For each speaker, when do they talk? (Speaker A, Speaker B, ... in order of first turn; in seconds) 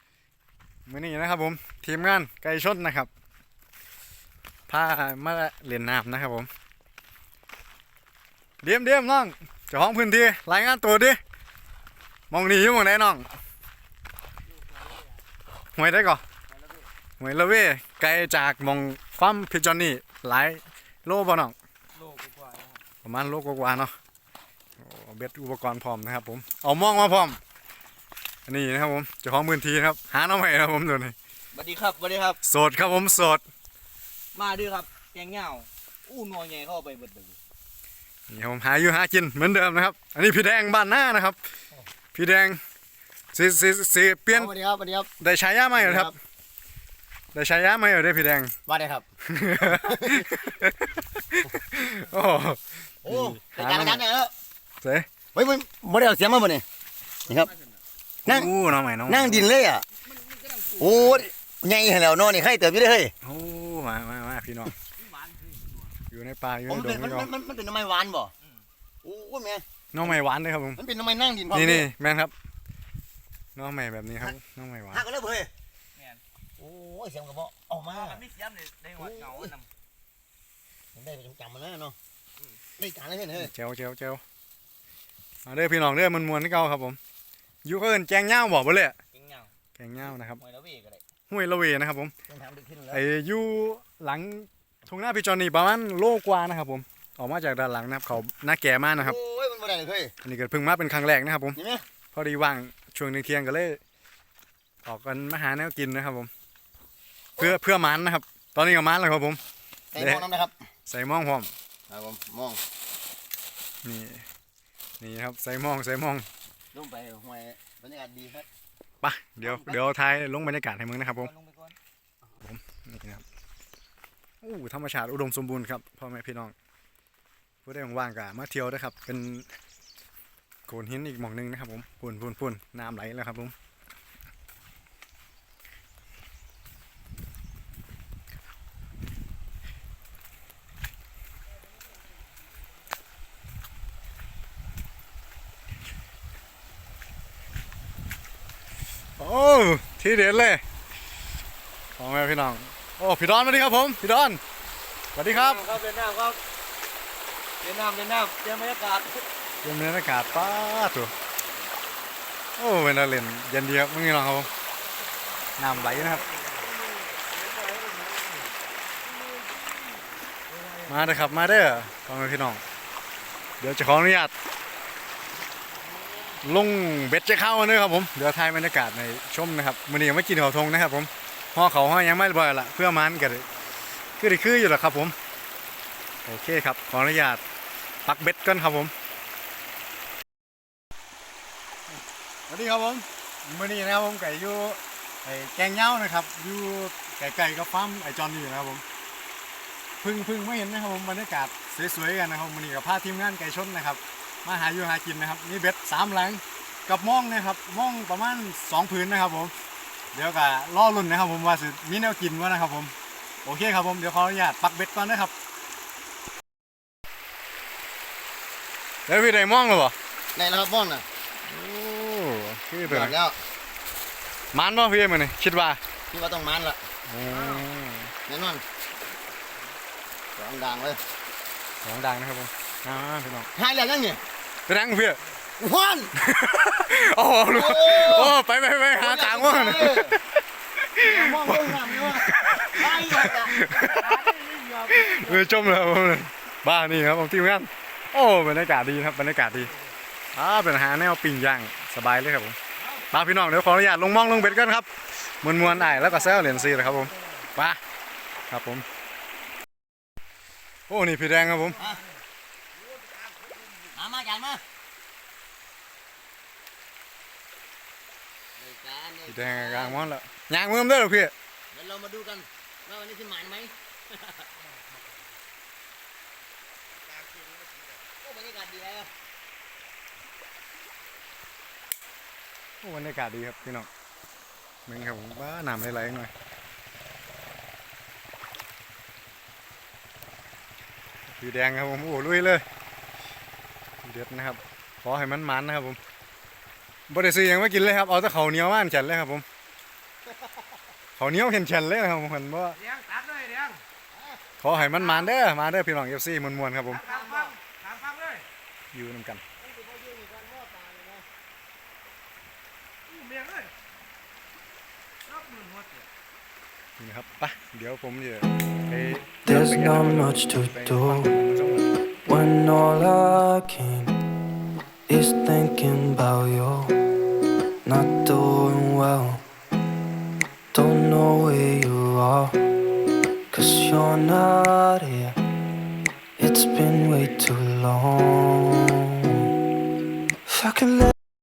Speaker A: 0.8-3.1, 4.7-6.5, 8.6-11.2, 12.3-13.3, 15.7-16.2, 17.2-21.5, 23.0-23.9, 24.8-27.4, 28.4-31.1, 32.4-33.4, 38.3-41.4, 42.1-42.6, 43.3-44.5, 45.2-46.1, 47.3-48.5, 49.2-54.0, 54.8-55.1, 58.2-59.5, 63.2-64.7, 66.1-67.3, 69.9-70.8, 71.5-72.3, 73.5-75.0, 83.3-84.2, 85.5-87.0, 87.6-89.0, 89.8-90.4, 91.3-92.1, 92.9-99.2, 100.2-101.6, 102.1-103.8, 104.8-106.3, 107.4-109.4, 110.0-110.3, 110.9-111.5, 113.8-114.2, 115.0-116.3, 119.0-121.3, 122.4-123.2, 124.4-126.5, 127.6-129.5, 130.7-133.5, 149.2-150.6, 152.0-154.4, 155.1-155.8, 159.6-161.1, 162.6-164.5, 165.6-166.3, 170.8-172.6, 173.6-174.3, 176.4-183.4, 184.2-185.1, 186.2-187.4, 188.0-188.9, 192.5-198.8, 200.0-209.5, 210.1-212.9, 213.4-215.3, 219.1-219.9, 221.4-223.2, 224.5-225.8, 227.1-228.1, 231.8-233.5, 234.7-235.2, 236.2-244.2, 244.8-249.7, 250.3-252.6, 253.1-257.8, 258.5-258.8, 260.9-261.8, 269.2-271.3, 282.8-283.9, 284.9-286.3, 291.3-292.6, 294.0-296.0, 297.1-299.4, 301.2-302.8, 304.6-307.1, 308.9-309.4, 317.0-321.9
Speaker B: 21.9-22.8, 31.5-32.4, 34.3-37.3, 60.1-61.2, 65.1-65.7, 76.0-76.2, 77.9-79.7, 89.1-89.5, 90.2-91.0, 119.4-119.8, 121.1-121.8, 155.3-156.4, 157.6-159.2, 167.4-168.3, 244.2-245.0, 263.2-263.8, 277.2-277.9, 302.9-303.8, 307.1-308.4, 313.2-313.6, 315.3-315.9
Speaker C: 44.3-45.1, 45.7-46.1, 48.6-49.1, 49.7-50.3, 53.0-54.3, 55.3-56.6, 57.3-57.5, 58.2-58.5, 59.0-59.9, 60.7-63.1, 66.7-68.3, 69.0-70.2, 70.8-71.9, 74.9-75.5, 76.6-78.2, 79.0-79.5, 80.9-82.0, 82.8-83.5, 92.3-93.0, 99.0-100.1, 101.5-101.8, 109.9-110.6, 111.9-112.6, 116.7-118.5, 220.3-221.1, 222.8-223.4, 226.1-226.8, 228.3-228.6, 230.3-231.0, 233.5-234.2, 235.6-236.1, 237.5-238.4, 238.9-240.2, 241.0-243.6, 261.7-262.0, 263.9-264.6, 268.6-270.1, 271.7-273.8, 278.2-279.1, 307.0-307.5, 309.7-311.1
Speaker D: 319.4-321.3, 322.2-324.2, 325.1-327.0, 327.8-329.4, 330.7-332.6, 333.5-335.4, 336.4-339.5, 340.5-341.1